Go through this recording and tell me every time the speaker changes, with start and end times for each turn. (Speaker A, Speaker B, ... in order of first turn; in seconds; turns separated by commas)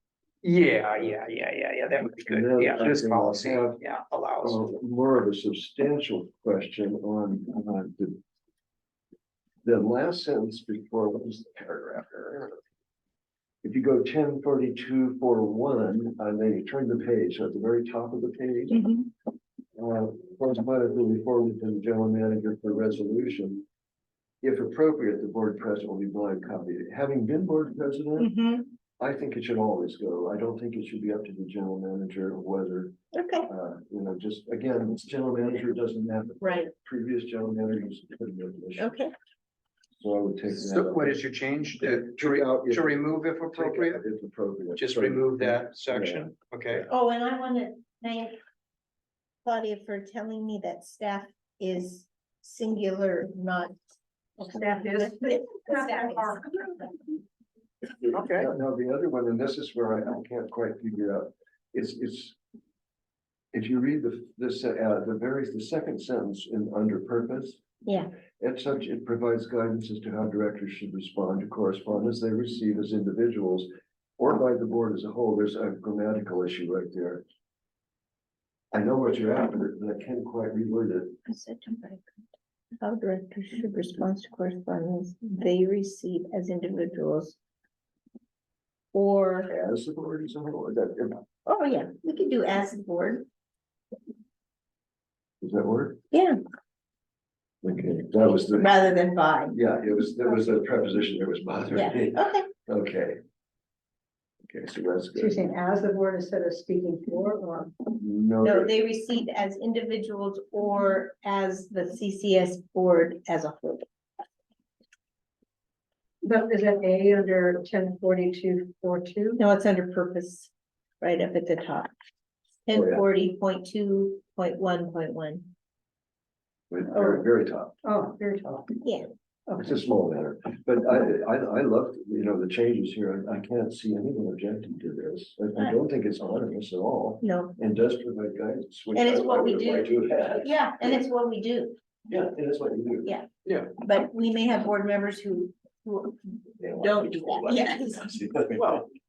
Speaker A: 0.4-4.6, Speaker B: 2.3-3.8, Speaker B: 4.4-8.2, Speaker B: 9.6-12.6, Speaker B: 13.6-18.8, Speaker B: 19.8-23.6, Speaker B: 24.4-28.3, Speaker C: 28.2-28.7, Speaker B: 29.0-38.9, Speaker C: 33.1-33.5, Speaker C: 36.4-36.7, Speaker C: 38.8-39.1, Speaker B: 40.0-41.2, Speaker A: 40.5-44.0, Speaker B: 41.8-46.3, Speaker A: 44.8-46.9, Speaker C: 46.9-48.4, Speaker C: 49.4-53.7, Speaker C: 54.4-56.4, Speaker D: 54.4-57.0, Speaker B: 57.9-62.4, Speaker A: 58.1-58.5, Speaker B: 63.5-67.6, Speaker C: 67.8-68.1, Speaker B: 68.4-77.2, Speaker B: 78.7-81.2, Speaker C: 81.3-82.1, Speaker C: 82.8-87.4, Speaker C: 88.9-89.5, Speaker B: 89.5-91.2, Speaker C: 91.5-93.2, Speaker B: 95.4-96.0, Speaker C: 96.1-96.4, Speaker B: 97.6-98.7, Speaker C: 98.5-99.5, Speaker B: 99.5-103.2, Speaker C: 101.7-102.5, Speaker B: 104.5-105.4, Speaker D: 105.1-107.8, Speaker B: 107.9-108.7, Speaker C: 108.4-113.8, Speaker D: 116.2-119.4, Speaker C: 119.4-120.5, Speaker C: 121.0-121.9, Speaker C: 122.7-125.5, Speaker B: 122.7-123.0, Speaker B: 126.7-127.8, Speaker D: 127.8-128.8, Speaker C: 128.8-129.1, Speaker B: 129.5-141.0, Speaker C: 137.2-137.6, Speaker C: 138.9-141.8, Speaker B: 142.1-143.1, Speaker A: 143.4-143.7, Speaker C: 143.8-148.1, Speaker B: 146.6-148.8, Speaker A: 148.5-148.8